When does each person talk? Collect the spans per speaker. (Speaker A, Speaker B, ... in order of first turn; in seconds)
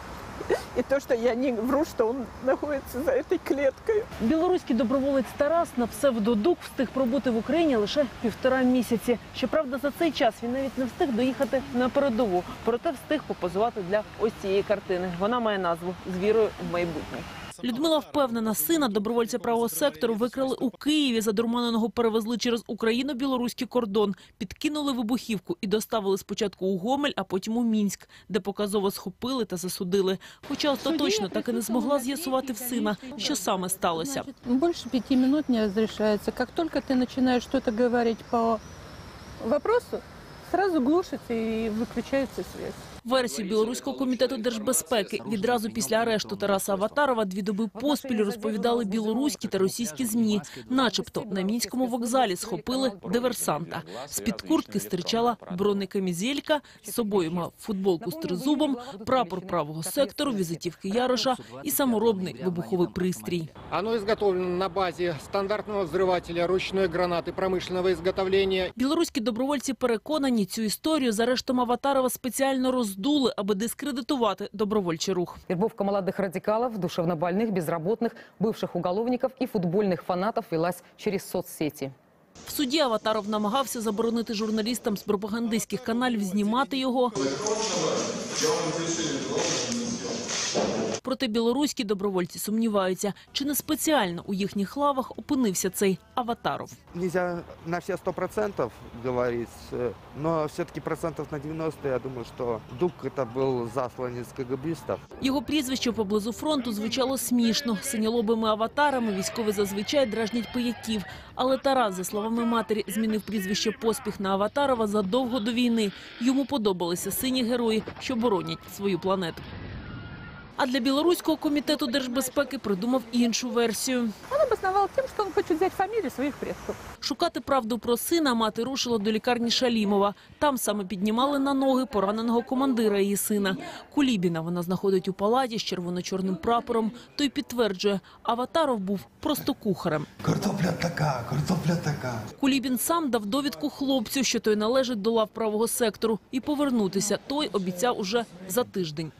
Speaker A: 0.8-4.1, 30.9-38.6, 39.5-42.8, 124.3-126.8
Speaker B: 4.2-34.3, 43.0-63.5, 68.7-75.4, 82.5-87.2, 91.0-96.8, 105.2-119.4, 120.6-124.1, 127.0-140.1, 142.4-149.1
Speaker C: 47.7-49.6, 50.8-53.3, 56.8-60.9, 75.5-81.9
Speaker D: 63.7-68.7
Speaker E: 96.9-105.0
Speaker F: 140.2-142.2